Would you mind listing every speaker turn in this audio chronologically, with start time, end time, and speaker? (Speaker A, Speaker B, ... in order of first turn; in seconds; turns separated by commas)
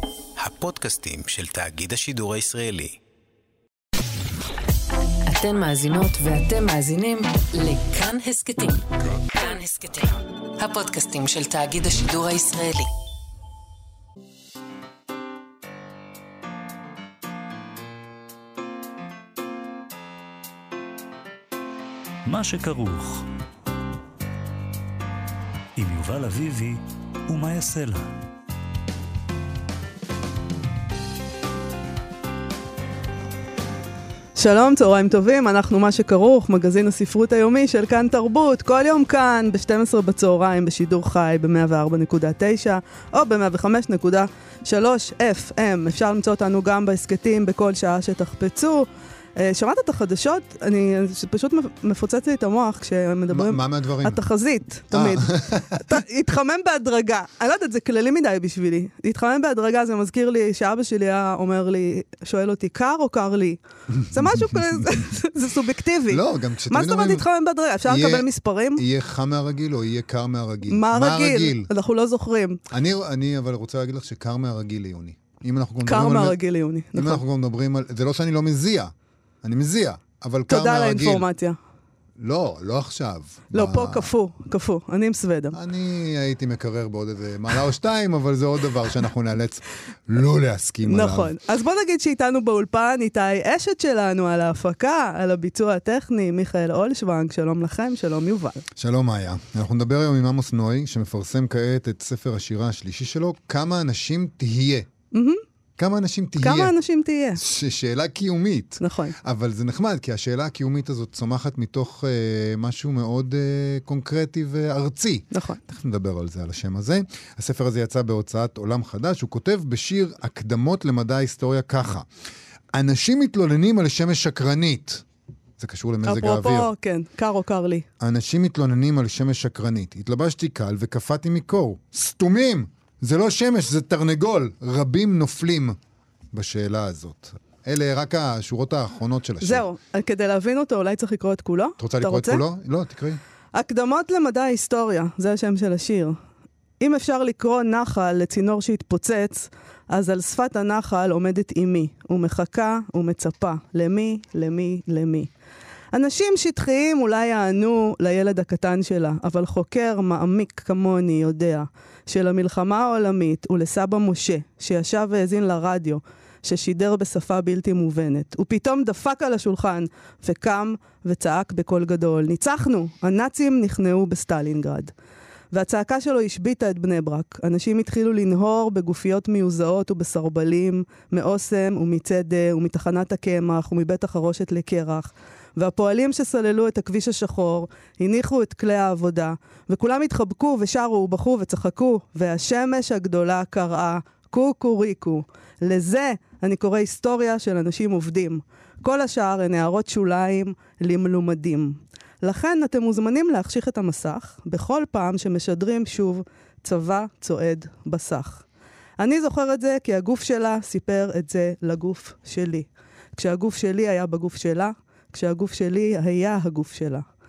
Speaker A: 0.4-3.0, Speaker B: 5.2-8.8, Speaker B: 9.3-12.9, Speaker C: 22.2-23.3, Speaker C: 25.8-28.1, Speaker D: 34.3-68.8, Speaker E: 53.3-54.2, Speaker E: 54.9-55.8, Speaker E: 63.9-64.9, Speaker E: 66.1-67.2, Speaker E: 67.8-71.7, Speaker D: 70.7-72.6, Speaker E: 72.7-76.4, Speaker D: 75.8-77.2, Speaker E: 76.9-78.9, Speaker E: 79.4-81.2, Speaker D: 80.5-81.6, Speaker E: 82.2-84.1, Speaker D: 83.5-85.6, Speaker E: 85.5-91.3, Speaker D: 90.8-98.6, Speaker E: 98.8-104.9, Speaker D: 105.1-105.4, Speaker E: 105.8-106.7, Speaker D: 106.4-107.4, Speaker E: 107.3-122.1, Speaker D: 108.8-109.2, Speaker D: 115.3-115.6, Speaker E: 122.7-125.0, Speaker E: 125.6-126.7, Speaker D: 126.0-127.8, Speaker E: 128.0-135.8, Speaker E: 136.3-139.6, Speaker D: 139.4-142.4, Speaker E: 141.8-143.2, Speaker D: 143.5-146.2, Speaker D: 146.8-155.3, Speaker D: 155.9-174.9, Speaker D: 175.5-208.4, Speaker D: 209.0-217.1